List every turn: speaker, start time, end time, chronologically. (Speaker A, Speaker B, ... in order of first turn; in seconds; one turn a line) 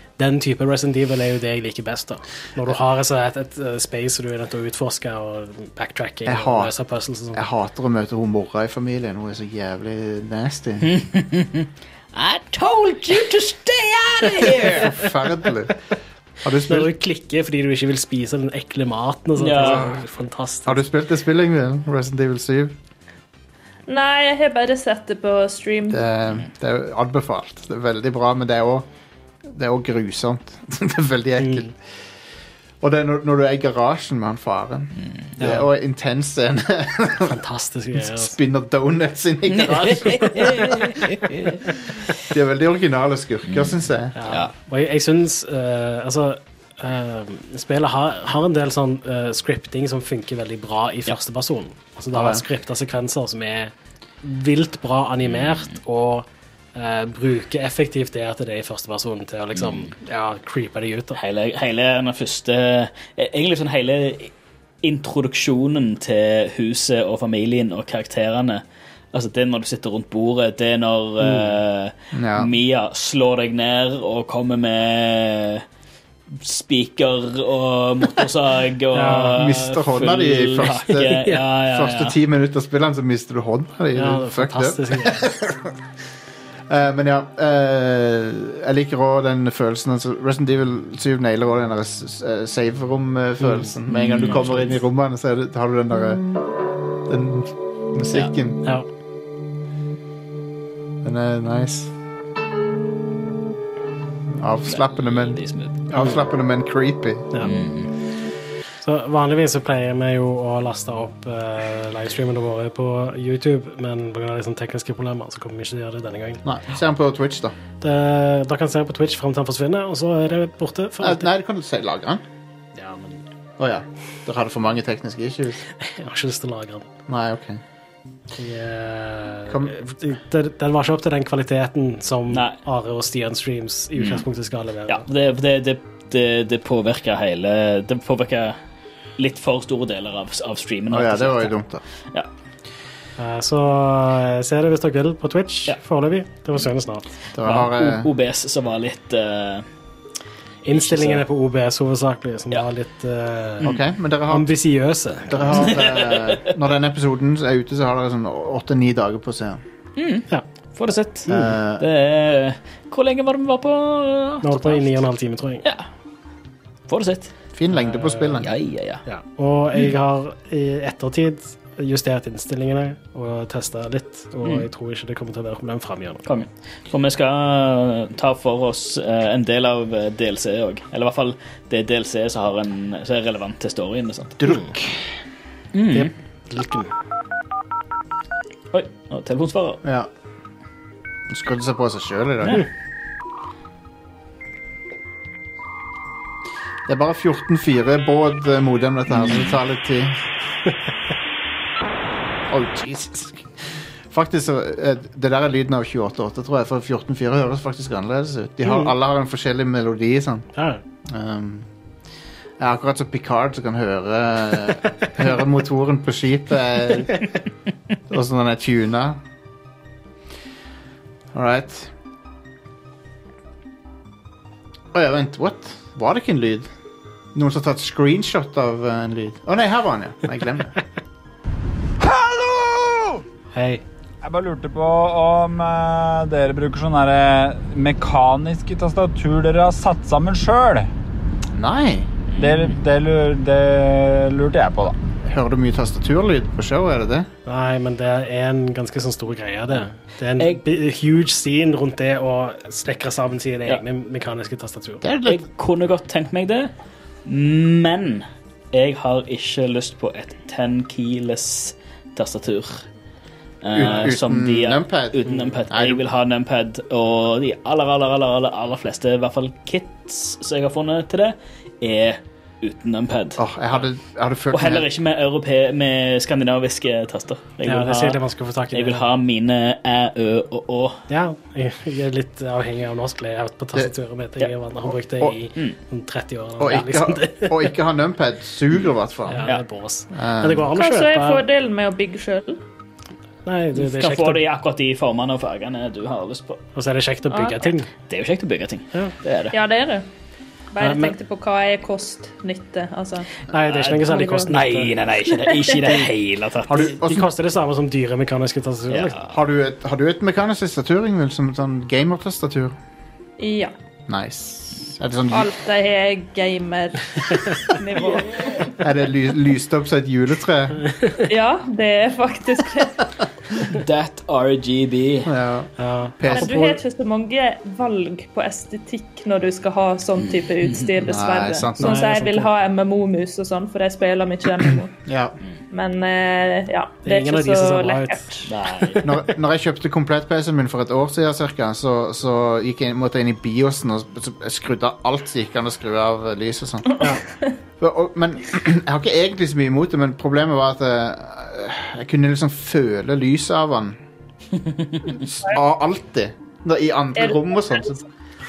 Speaker A: 0.2-7.4
Speaker B: 6.3-6.7
Speaker B: 7.3-10.9
Speaker C: 10.8-14.9
Speaker B: 14.4-15.7
Speaker B: 16.4-16.9
Speaker A: 16.7-20.8
Speaker C: 19.4-19.9
Speaker B: 19.6-19.9
Speaker B: 20.7-22.8
Speaker D: 23.9-26.0
Speaker B: 25.9-28.9
Speaker B: 29.4-31.8
Speaker A: 31.4-31.7
Speaker B: 32.8-37.4
Speaker A: 35.4-35.7
Speaker A: 37.3-38.4
Speaker B: 38.0-40.5
Speaker C: 39.5-41.3
Speaker A: 39.8-41.3
Speaker B: 42.2-44.1
Speaker C: 43.5-43.7
Speaker A: 44.2-61.2
Speaker C: 44.3-44.5
Speaker B: 52.1-52.4
Speaker C: 55.3-55.8
Speaker C: 59.6-59.9
Speaker C: 61.1-64.3
Speaker C: 64.8-68.6
Speaker C: 69.1-75.6
Speaker A: 71.2-71.6
Speaker B: 72.1-72.5
Speaker C: 76.3-82.2
Speaker A: 78.9-79.5
Speaker B: 79.1-85.8
Speaker A: 81.0-81.4
Speaker A: 84.0-85.3
Speaker B: 86.7-96.3
Speaker C: 93.9-94.8
Speaker B: 97.1-98.6
Speaker B: 101.0-101.9
Speaker B: 104.4-107.3
Speaker C: 104.7-105.8
Speaker C: 107.4-107.9
Speaker A: 108.8-116.4
Speaker B: 116.5-117.5
Speaker A: 117.8-121.3
Speaker B: 121.0-122.2
Speaker A: 122.8-123.2
Speaker B: 123.6-125.6
Speaker A: 125.8-126.9
Speaker B: 127.1-127.6
Speaker A: 128.4-135.0
Speaker B: 129.5-129.7
Speaker C: 132.3-132.6
Speaker C: 134.0-134.2
Speaker C: 134.9-138.6
Speaker C: 139.2-141.5
Speaker B: 140.9-141.8
Speaker A: 143.2-147.1
Speaker B: 147.3-148.1
Speaker C: 147.4-149.7
Speaker A: 150.7-153.7
Speaker C: 150.7-151.2
Speaker B: 153.6-154.5
Speaker A: 154.3-155.7
Speaker B: 155.3-159.6
Speaker C: 155.6-156.5
Speaker C: 160.0-165.0
Speaker B: 161.3-161.8
Speaker A: 164.4-165.6
Speaker C: 166.9-167.3
Speaker B: 167.5-168.5
Speaker A: 167.7-168.4
Speaker C: 168.4-169.0
Speaker A: 169.1-176.2
Speaker C: 176.3-184.4
Speaker B: 184.4-185.1
Speaker C: 185.7-186.1
Speaker A: 185.9-186.9
Speaker C: 188.7-189.8
Speaker B: 189.8-190.1
Speaker B: 191.3-192.6
Speaker B: 196.9-200.2
Speaker B: 202.5-210.5
Speaker A: 208.7-208.9
Speaker A: 210.6-210.8
Speaker B: 211.1-211.7
Speaker B: 212.6-217.2
Speaker B: 218.1-219.2
Speaker B: 221.3-221.9
Speaker B: 224.9-226.7
Speaker B: 227.3-230.8
Speaker E: 232.0-233.2
Speaker A: 233.5-233.8
Speaker E: 234.2-240.9
Speaker B: 241.5-242.1
Speaker C: 242.3-242.8
Speaker E: 242.4-245.0
Speaker B: 245.3-247.3
Speaker A: 247.5-255.0
Speaker B: 255.0-255.4
Speaker C: 255.2-256.7
Speaker C: 257.3-262.8
Speaker C: 263.6-273.4
Speaker B: 263.7-266.0
Speaker B: 273.4-274.9
Speaker C: 274.5-278.2
Speaker A: 277.6-279.1
Speaker C: 278.7-281.0
Speaker A: 281.1-287.7
Speaker B: 286.6-289.4
Speaker A: 289.3-291.4
Speaker B: 290.1-290.7
Speaker D: 290.8-292.6
Speaker A: 293.5-294.4
Speaker C: 293.8-296.6
Speaker A: 296.8-297.9
Speaker D: 297.3-297.7
Speaker C: 298.1-299.6
Speaker D: 299.5-300.1
Speaker D: 300.7-303.3
Speaker A: 300.8-301.1
Speaker A: 303.5-305.0
Speaker C: 303.7-306.8
Speaker D: 304.0-305.9
Speaker A: 305.7-306.0
Speaker B: 306.7-307.3
Speaker A: 306.7-309.2
Speaker C: 308.9-309.3
Speaker B: 309.3-312.8
Speaker D: 313.4-313.7
Speaker B: 314.1-315.5
Speaker D: 315.3-318.7
Speaker C: 318.1-318.7
Speaker B: 318.8-320.8
Speaker D: 321.3-323.0
Speaker C: 323.6-325.3
Speaker B: 325.2-326.8
Speaker A: 325.8-326.6
Speaker D: 326.3-334.9
Speaker C: 330.3-330.9
Speaker B: 331.0-332.1
Speaker A: 331.8-332.5
Speaker B: 335.1-335.4
Speaker D: 335.7-338.5
Speaker A: 337.1-338.3
Speaker C: 338.5-339.1
Speaker B: 339.0-347.1
Speaker B: 347.8-354.0
Speaker C: 354.6-355.2
Speaker B: 355.1-358.0
Speaker D: 357.2-357.9